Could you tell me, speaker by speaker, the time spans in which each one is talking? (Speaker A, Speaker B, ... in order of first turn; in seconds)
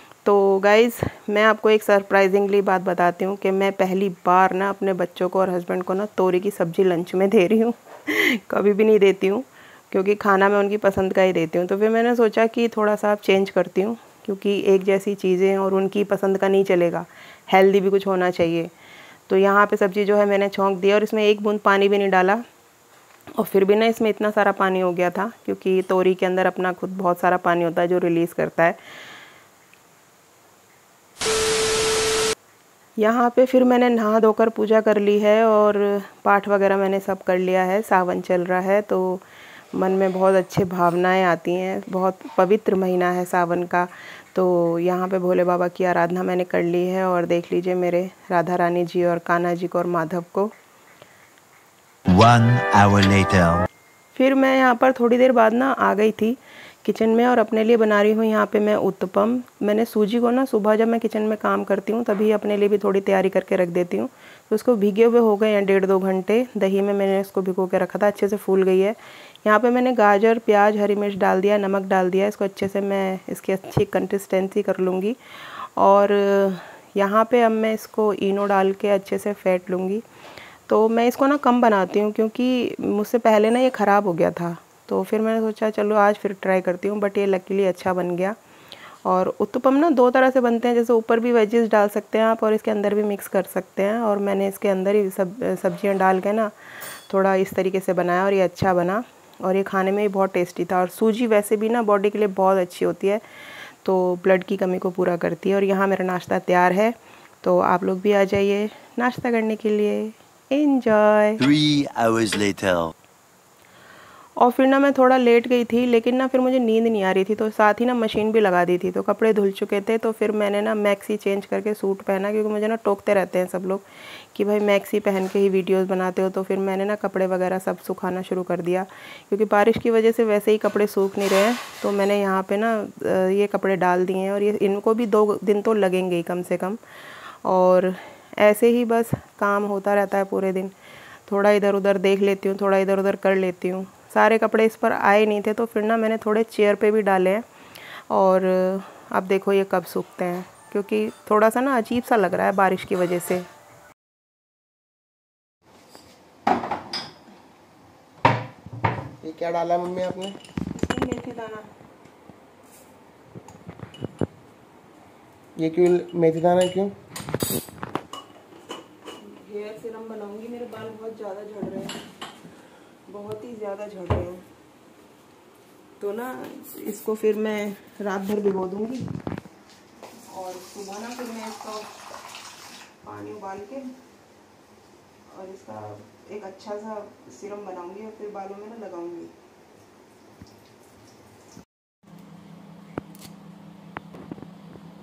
Speaker A: 0.2-18.7, 19.3-22.4, 23.4-28.8, 33.0-50.5, 54.1-80.0, 80.7-88.4, 89.0-103.2, 103.8-111.4, 114.4-136.8, 137.4-140.8, 141.3-147.5, 148.1-153.5, 160.7-161.7, 169.2-172.0, 173.1-174.4, 176.0-179.1, 180.2-181.9, 183.0-183.9, 185.3-189.3
Speaker B: 52.1-53.7, 111.4-112.9
Speaker C: 159.2-160.4, 165.6-166.9